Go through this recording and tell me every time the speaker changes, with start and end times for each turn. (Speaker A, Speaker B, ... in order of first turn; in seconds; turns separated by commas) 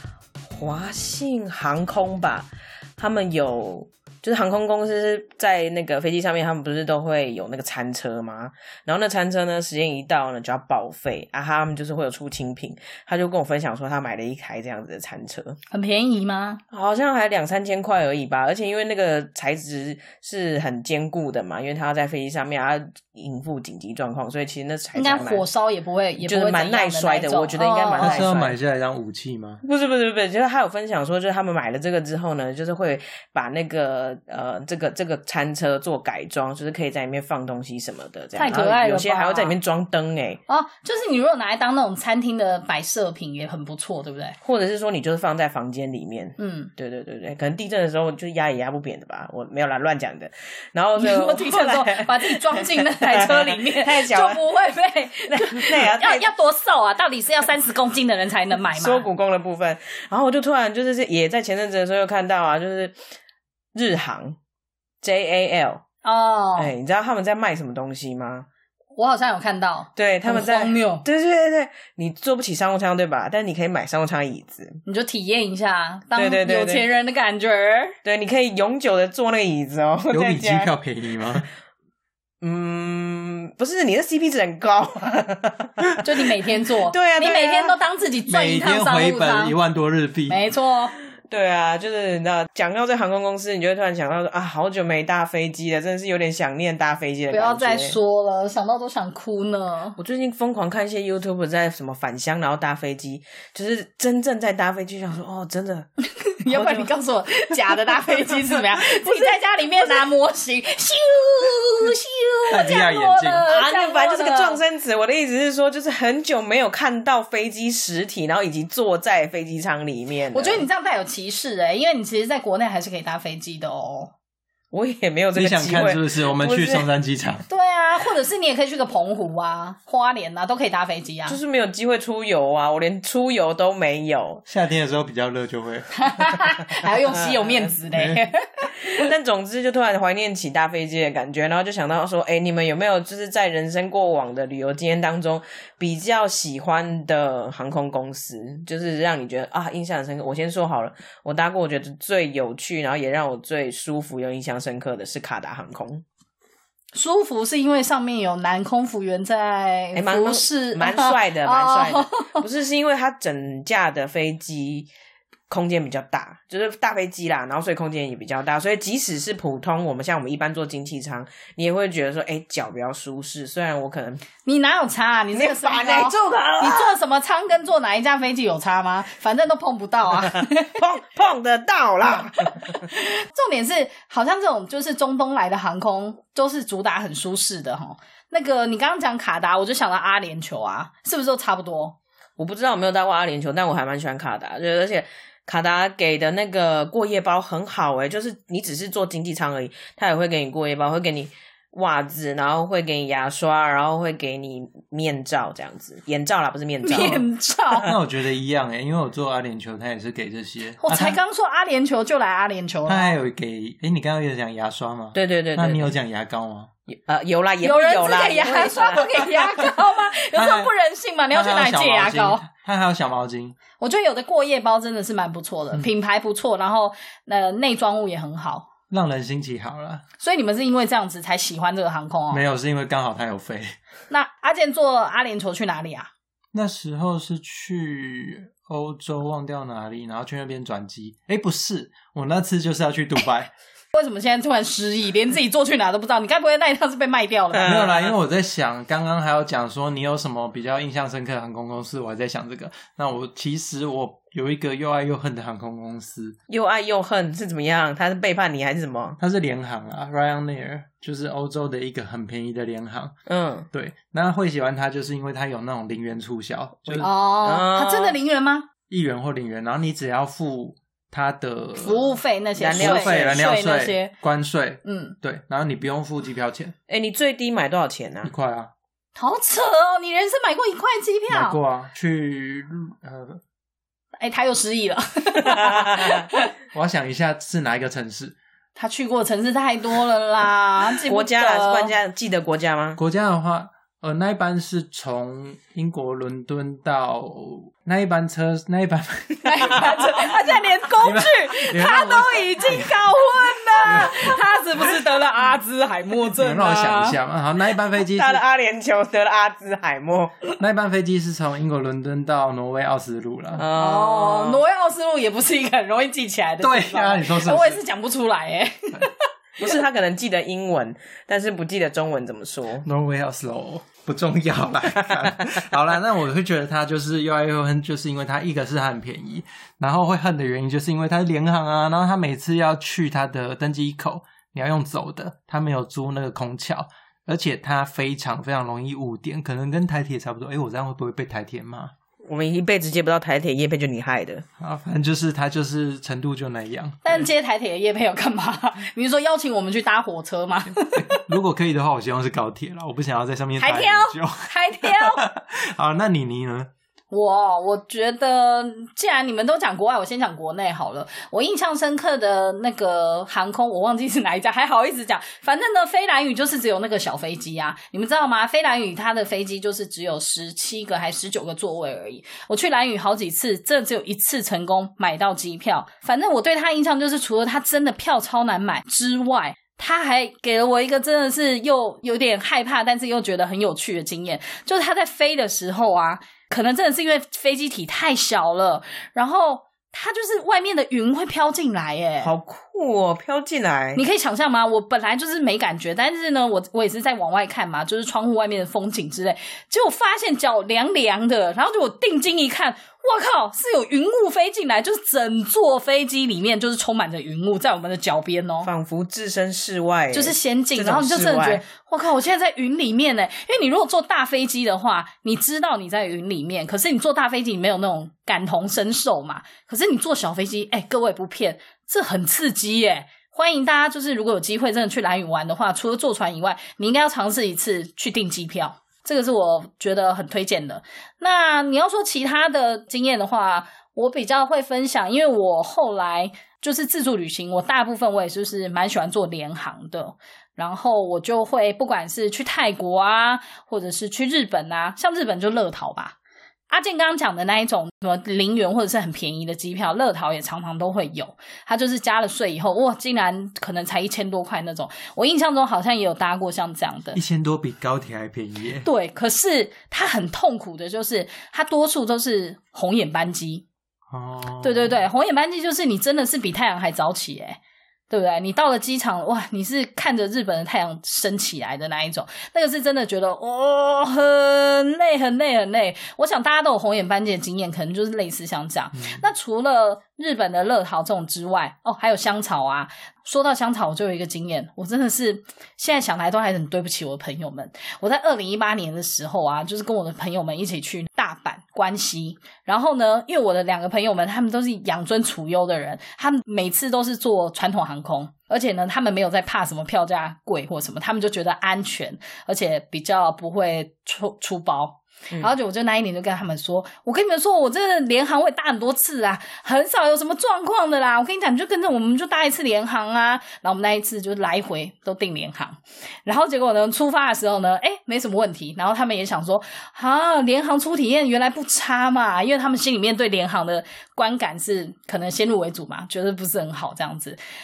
Speaker A: 0.4-15.6, Speaker B: 15.7-16.6, Speaker A: 16.7-25.4, Speaker B: 24.9-28.3, Speaker A: 26.2-28.6, Speaker C: 28.0-29.6, Speaker A: 29.6-40.4, Speaker B: 38.3-39.5, Speaker B: 40.5-44.4, Speaker A: 44.4-54.4, Speaker B: 46.4-46.7, Speaker B: 51.0-59.0, Speaker A: 55.3-56.3, Speaker A: 58.6-63.0, Speaker A: 63.7-64.4, Speaker A: 65.0-65.8, Speaker B: 66.0-66.7, Speaker A: 66.6-68.5, Speaker B: 69.0-71.0, Speaker A: 70.0-74.8, Speaker B: 74.8-77.9, Speaker A: 76.1-76.9, Speaker A: 78.0-80.7, Speaker C: 80.1-81.4, Speaker A: 82.4-85.9, Speaker B: 86.0-89.5, Speaker A: 86.9-87.8, Speaker C: 88.3-90.4, Speaker B: 90.3-90.9, Speaker A: 91.3-98.0, Speaker B: 97.3-100.0, Speaker A: 100.0-105.9, Speaker B: 106.4-114.6, Speaker A: 106.5-106.9, Speaker A: 108.8-109.3, Speaker C: 112.5-113.5, Speaker A: 113.5-120.7, Speaker B: 120.3-124.1, Speaker A: 124.7-126.9, Speaker C: 125.3-127.4, Speaker B: 127.5-131.4, Speaker A: 131.3-134.4, Speaker C: 134.5-136.3, Speaker B: 136.0-138.4, Speaker A: 137.1-137.7, Speaker C: 137.9-138.2, Speaker A: 138.7-156.0, Speaker B: 156.9-162.4, Speaker A: 159.9-164.9, Speaker A: 165.5-174.2, Speaker B: 174.4-180.7, Speaker A: 175.3-176.9, Speaker A: 180.2-182.8, Speaker B: 182.7-191.9, Speaker A: 192.4-207.2, Speaker B: 206.8-207.9, Speaker C: 207.8-211.2, Speaker B: 210.8-213.2, Speaker C: 212.9-216.7, Speaker A: 215.1-215.9, Speaker A: 216.9-219.7, Speaker B: 217.6-222.5, Speaker C: 220.3-220.7, Speaker C: 221.3-223.6, Speaker B: 223.8-228.7, Speaker C: 228.9-230.0, Speaker B: 230.2-232.4, Speaker C: 232.3-233.7, Speaker B: 234.1-236.1, Speaker C: 236.5-243.5, Speaker B: 243.9-247.9, Speaker A: 247.5-248.1, Speaker C: 247.6-256.4, Speaker A: 256.5-259.2, Speaker C: 259.2-263.1, Speaker A: 263.3-263.7, Speaker C: 263.7-267.1, Speaker A: 266.9-268.1, Speaker B: 267.0-268.7, Speaker C: 268.9-272.2, Speaker B: 271.8-274.1, Speaker A: 272.5-273.4, Speaker C: 272.7-276.7, Speaker B: 274.8-275.1, Speaker A: 276.9-278.3, Speaker C: 278.2-278.7, Speaker B: 279.1-281.6, Speaker C: 281.3-283.4, Speaker B: 284.2-286.5, Speaker A: 285.5-286.1, Speaker C: 286.7-288.4, Speaker B: 288.8-291.9, Speaker A: 291.1-293.0, Speaker C: 293.0-299.9, Speaker B: 299.4-307.2, Speaker C: 301.0-303.0, Speaker C: 303.8-304.4, Speaker C: 306.3-308.4, Speaker A: 308.0-310.3, Speaker C: 310.6-313.6, Speaker A: 313.6-314.6, Speaker B: 313.7-319.2, Speaker C: 316.6-317.8, Speaker A: 319.6-322.9, Speaker C: 322.8-341.9, Speaker A: 342.3-344.4, Speaker C: 344.6-347.1, Speaker B: 347.0-351.2, Speaker C: 350.9-356.7, Speaker B: 353.6-355.2, Speaker B: 357.1-392.3, Speaker A: 392.2-394.0, Speaker B: 393.9-408.7, Speaker A: 408.6-411.6, Speaker B: 410.1-446.1, Speaker B: 446.7-457.2, Speaker C: 457.1-458.9, Speaker B: 458.8-463.6, Speaker C: 464.1-465.0, Speaker B: 464.6-467.6, Speaker B: 468.1-527.4